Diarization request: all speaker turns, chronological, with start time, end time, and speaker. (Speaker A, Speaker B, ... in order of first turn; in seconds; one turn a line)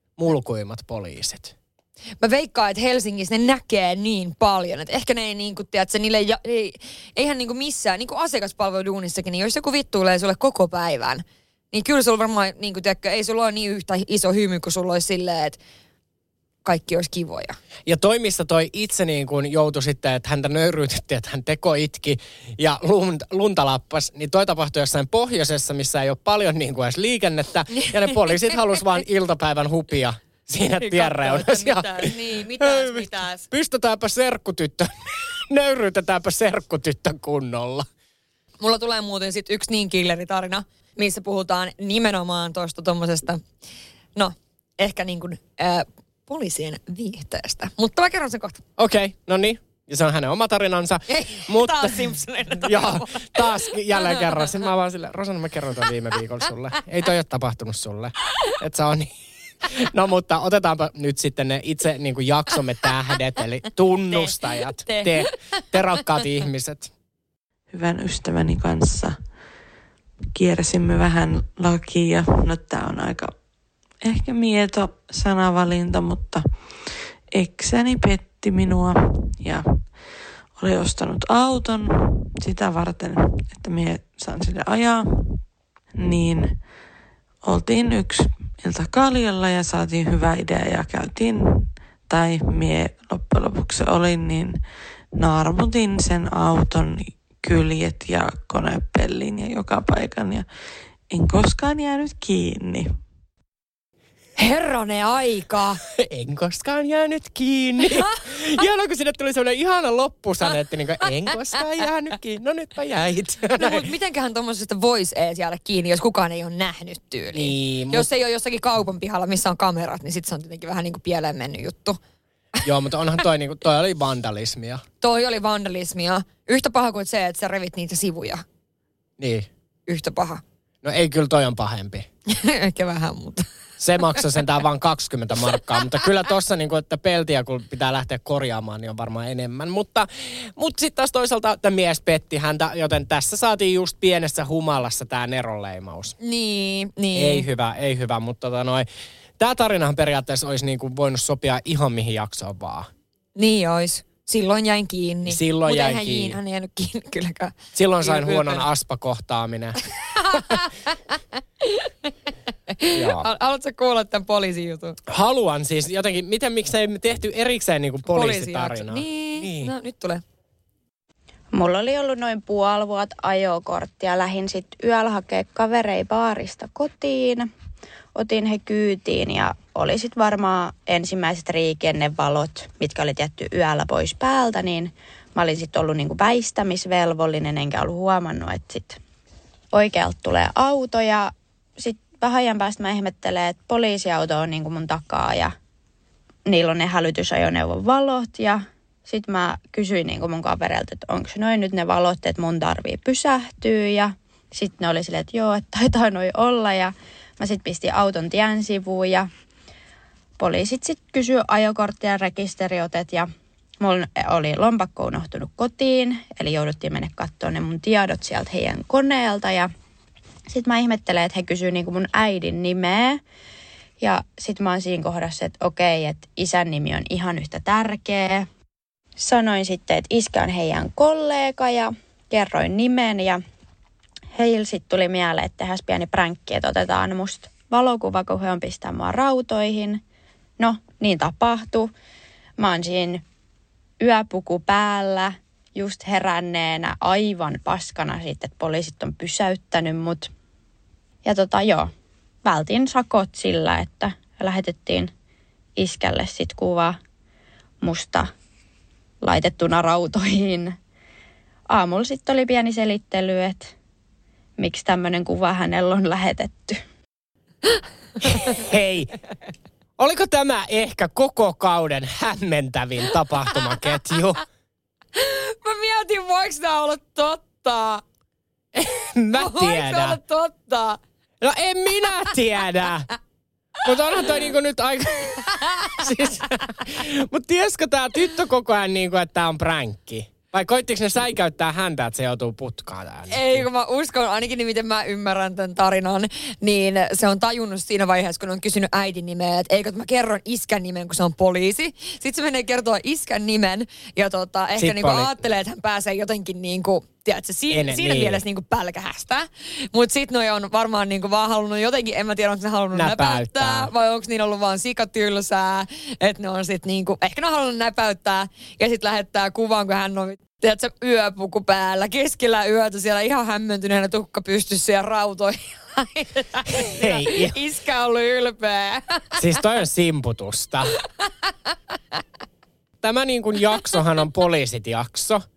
Speaker A: 0.2-1.5
Speaker B: 2.2-15.6
Speaker B: 16.6-17.6
Speaker A: 17.9-37.9
Speaker B: 30.8-33.5
Speaker B: 38.6-43.4
Speaker B: 44.2-48.6
Speaker A: 48.8-59.1
Speaker B: 51.1-54.2
Speaker A: 59.7-66.9
Speaker B: 64.8-65.3
Speaker C: 67.7-69.3
Speaker C: 70.4-73.3
Speaker C: 74.0-85.4
Speaker C: 86.0-86.6
Speaker C: 87.4-94.6
Speaker C: 95.2-100.5
Speaker C: 101.1-103.0
Speaker B: 104.4-105.8
Speaker A: 106.0-113.9
Speaker B: 113.6-122.0
Speaker A: 117.3-118.1
Speaker A: 122.6-124.8
Speaker B: 125.0-128.4
Speaker A: 129.2-129.5
Speaker B: 129.9-130.4
Speaker A: 130.8-132.1
Speaker B: 132.3-133.5
Speaker A: 133.8-146.2
Speaker B: 146.2-147.4
Speaker A: 147.2-148.9
Speaker A: 149.4-152.9
Speaker B: 153.4-158.7
Speaker A: 155.3-156.4
Speaker A: 157.7-159.8
Speaker B: 160.2-160.7
Speaker B: 161.6-162.1
Speaker B: 162.7-165.0
Speaker A: 162.9-163.2
Speaker A: 165.1-169.7
Speaker B: 168.1-170.2
Speaker D: 171.5-177.5
Speaker D: 178.2-189.0
Speaker D: 189.7-195.5
Speaker D: 196.5-209.3
Speaker D: 210.4-219.7
Speaker D: 220.5-223.2
Speaker D: 224.0-228.5
Speaker D: 229.2-233.4
Speaker D: 234.3-240.0
Speaker D: 240.6-241.9
Speaker D: 242.6-243.2
Speaker D: 244.0-250.3
Speaker D: 251.2-251.9
Speaker D: 252.4-255.1
Speaker D: 255.8-257.0
Speaker D: 257.8-258.3
Speaker D: 259.2-260.8
Speaker D: 261.7-263.7
Speaker D: 264.6-266.8
Speaker A: 268.3-269.1
Speaker A: 270.0-274.4
Speaker B: 275.2-278.0
Speaker A: 278.8-280.2
Speaker B: 279.3-281.0
Speaker A: 281.4-283.1
Speaker A: 283.8-293.7
Speaker B: 285.5-285.9
Speaker B: 293.3-329.3
Speaker A: 304.8-305.4
Speaker A: 307.7-308.4
Speaker A: 312.9-313.9
Speaker A: 326.8-327.6
Speaker A: 329.4-331.0
Speaker A: 333.0-335.4